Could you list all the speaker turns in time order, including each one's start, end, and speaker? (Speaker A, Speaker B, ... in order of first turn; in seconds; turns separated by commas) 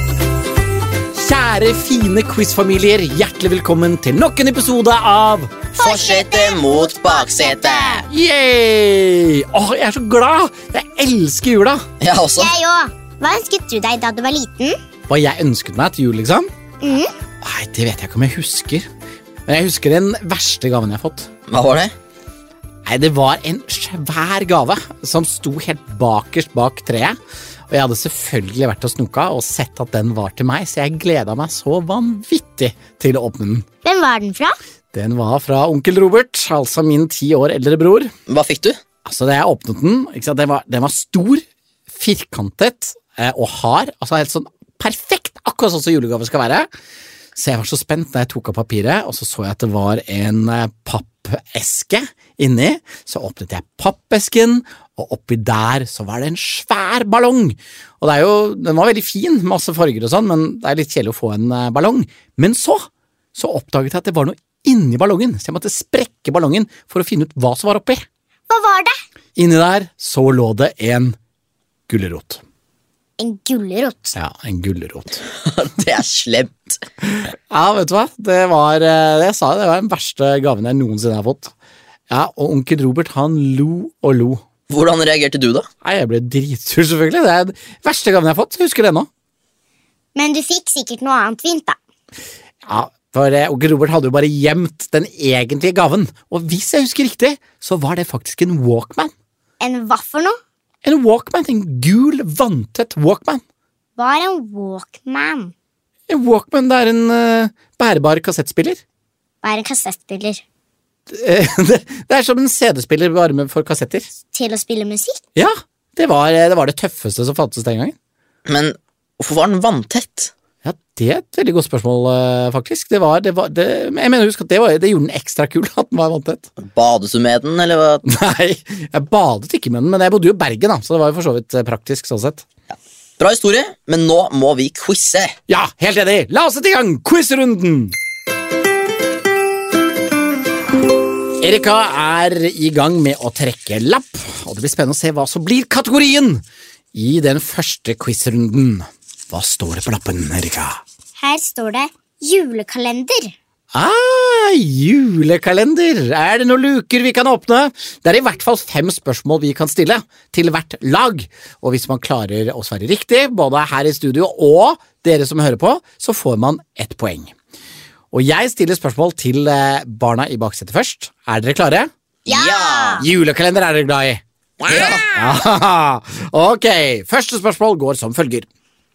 Speaker A: 1.1-5.6, Speaker B: 5.7-8.1, Speaker C: 5.8-8.1, Speaker A: 8.1-11.9, Speaker C: 12.0-12.5, Speaker B: 12.4-14.8, Speaker A: 15.1-16.5, Speaker B: 16.8-17.1, Speaker A: 17.4-18.9, Speaker A: 19.5-21.3, Speaker C: 21.5-21.9, Speaker A: 22.9-27.2, Speaker A: 27.7-33.7, Speaker B: 33.8-34.6, Speaker A: 34.9-38.1, Speaker C: 38.3-38.8, Speaker A: 39.0-46.7, Speaker A: 47.3-68.0, Speaker B: 68.5-68.9, Speaker A: 69.4-71.2, Speaker A: 71.9-72.4, Speaker B: 73.2-74.2, Speaker A: 74.2-75.2, Speaker C: 75.3-76.8, Speaker A: 77.0-81.5, Speaker A: 82.1-84.5, Speaker C: 84.7-85.7, Speaker A: 85.8-89.1, Speaker B: 90.2-91.8, Speaker A: 92.7-99.1, Speaker B: 99.6-100.4, Speaker A: 100.8-103.4, Speaker B: 104.0-105.5, Speaker A: 106.1-108.8, Speaker B: 109.4-110.4, Speaker A: 111.1-114.1, Speaker B: 114.3-115.2, Speaker A: 115.3-118.0, Speaker C: 118.5-120.3, Speaker A: 120.6-126.5, Speaker C: 126.6-128.0, Speaker A: 128.0-132.5, Speaker C: 132.7-135.4, Speaker A: 135.5-137.9, Speaker A: 141.4-150.8, Speaker B: 151.2-153.3, Speaker A: 153.7-167.3, Speaker A: 168.1-171.9, Speaker C: 172.3-173.1, Speaker B: 172.3-173.1, Speaker A: 173.0-178.5, Speaker C: 174.7-175.3